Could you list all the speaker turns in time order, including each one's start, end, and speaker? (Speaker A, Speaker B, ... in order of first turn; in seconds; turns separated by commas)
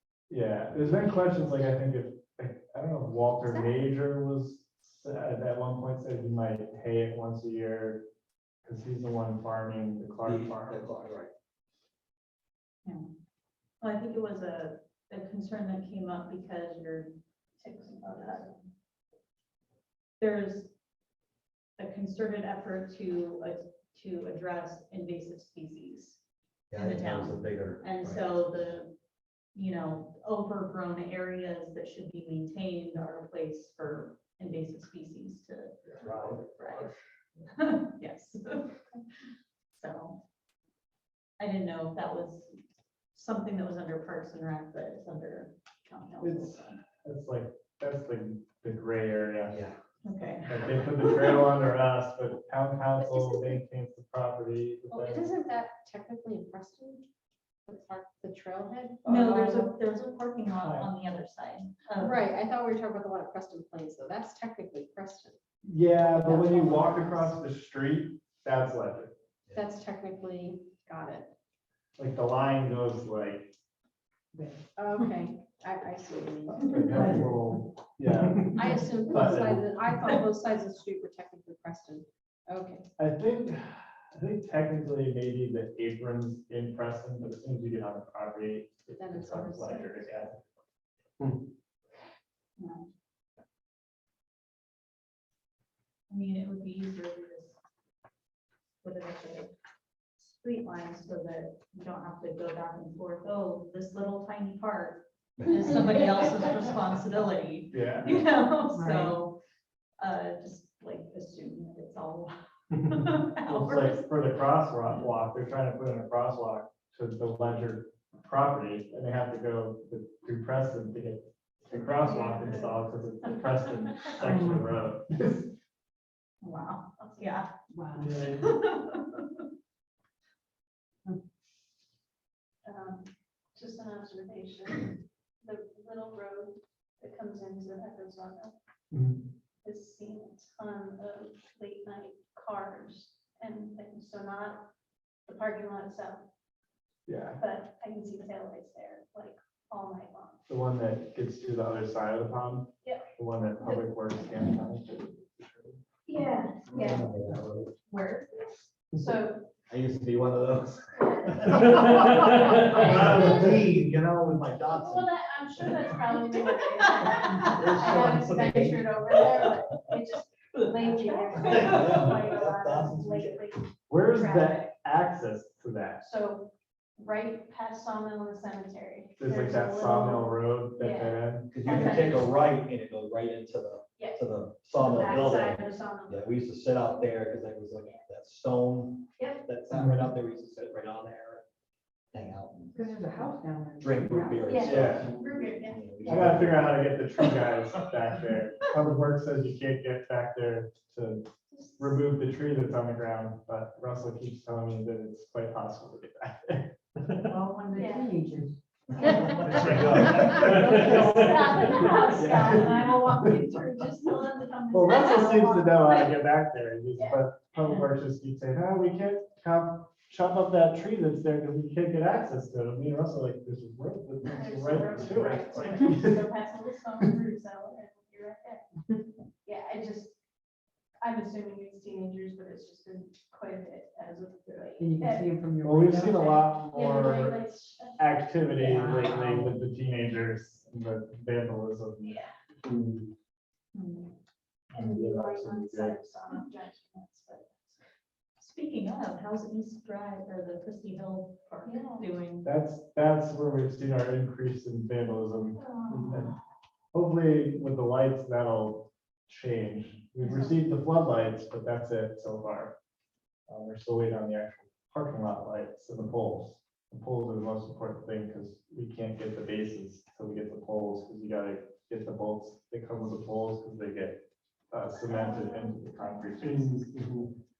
Speaker A: 0.3-8.0, Speaker A: 8.6-10.9, Speaker B: 10.2-11.3, Speaker C: 13.8-17.2, Speaker D: 17.6-18.4, Speaker C: 18.1-18.5, Speaker C: 20.2-20.7, Speaker C: 21.8-26.2, Speaker B: 26.7-28.7, Speaker C: 26.7-28.9, Speaker C: 29.5-36.9, Speaker B: 36.0-36.4, Speaker C: 37.5-38.7, Speaker C: 39.7-40.2, Speaker C: 41.4-42.5, Speaker C: 43.1-46.7, Speaker A: 46.2-49.6, Speaker B: 49.5-49.8, Speaker C: 50.0-51.4, Speaker A: 50.5-55.3, Speaker E: 54.9-57.0, Speaker E: 57.7-59.8, Speaker A: 59.0-59.3, Speaker C: 59.0-62.2, Speaker A: 60.6-60.9, Speaker E: 62.0-65.4, Speaker A: 65.6-69.1, Speaker E: 66.0-67.3, Speaker E: 69.5-71.3, Speaker A: 72.0-73.5, Speaker F: 74.3-74.6, Speaker E: 74.8-77.0, Speaker A: 76.5-79.7, Speaker F: 76.8-77.4, Speaker F: 78.4-78.8, Speaker E: 78.5-82.9, Speaker A: 83.0-90.4, Speaker E: 89.0-90.2, Speaker C: 92.6-92.8, Speaker C: 96.1-97.6, Speaker C: 98.8-99.5, Speaker C: 100.2-109.4, Speaker B: 105.4-106.1, Speaker A: 107.7-108.2, Speaker F: 108.7-109.2, Speaker C: 110.0-114.1, Speaker A: 113.5-125.5, Speaker D: 121.7-122.8, Speaker F: 124.2-124.7, Speaker C: 126.4-127.5, Speaker D: 127.0-127.4, Speaker F: 127.7-128.2, Speaker A: 128.0-128.4, Speaker C: 128.2-129.4, Speaker D: 132.6-138.5, Speaker D: 139.6-144.7, Speaker D: 145.2-146.2, Speaker A: 147.1-147.4, Speaker D: 147.4-150.4, Speaker A: 150.5-155.8, Speaker D: 156.1-157.1, Speaker B: 156.7-157.7, Speaker D: 157.9-159.5, Speaker B: 159.7-165.9, Speaker D: 160.9-161.5, Speaker D: 164.7-174.7, Speaker B: 167.5-169.5, Speaker C: 170.6-170.9, Speaker E: 170.9-171.2, Speaker B: 171.3-173.5, Speaker C: 171.5-171.8, Speaker A: 173.9-176.0, Speaker D: 176.0-182.3, Speaker A: 179.2-181.5, Speaker B: 181.5-191.4, Speaker D: 184.0-184.2, Speaker D: 184.7-186.4, Speaker D: 189.2-189.4, Speaker B: 192.1-192.6, Speaker F: 192.7-194.6, Speaker B: 193.8-196.9, Speaker D: 194.4-196.3, Speaker A: 194.6-195.1, Speaker A: 196.1-206.8, Speaker D: 201.5-202.0, Speaker F: 207.1-209.5, Speaker D: 207.7-208.1, Speaker D: 208.9-216.1, Speaker B: 209.2-210.9, Speaker A: 209.3-213.3, Speaker A: 214.7-226.3, Speaker D: 216.9-217.2, Speaker C: 217.6-217.8, Speaker D: 224.3-228.6, Speaker D: 229.4-230.1, Speaker D: 231.0-235.3, Speaker F: 234.8-236.5, Speaker A: 235.6-237.5, Speaker D: 236.7-238.8, Speaker A: 238.0-242.2, Speaker F: 238.6-239.6, Speaker D: 242.0-242.3, Speaker C: 243.7-244.1, Speaker A: 244.7-246.0, Speaker D: 244.7-247.7, Speaker C: 248.4-252.5, Speaker D: 251.6-252.1, Speaker A: 252.4-256.3, Speaker D: 255.6-255.9, Speaker A: 256.9-262.7, Speaker D: 260.2-260.6, Speaker A: 263.5-277.0, Speaker D: 275.0-275.8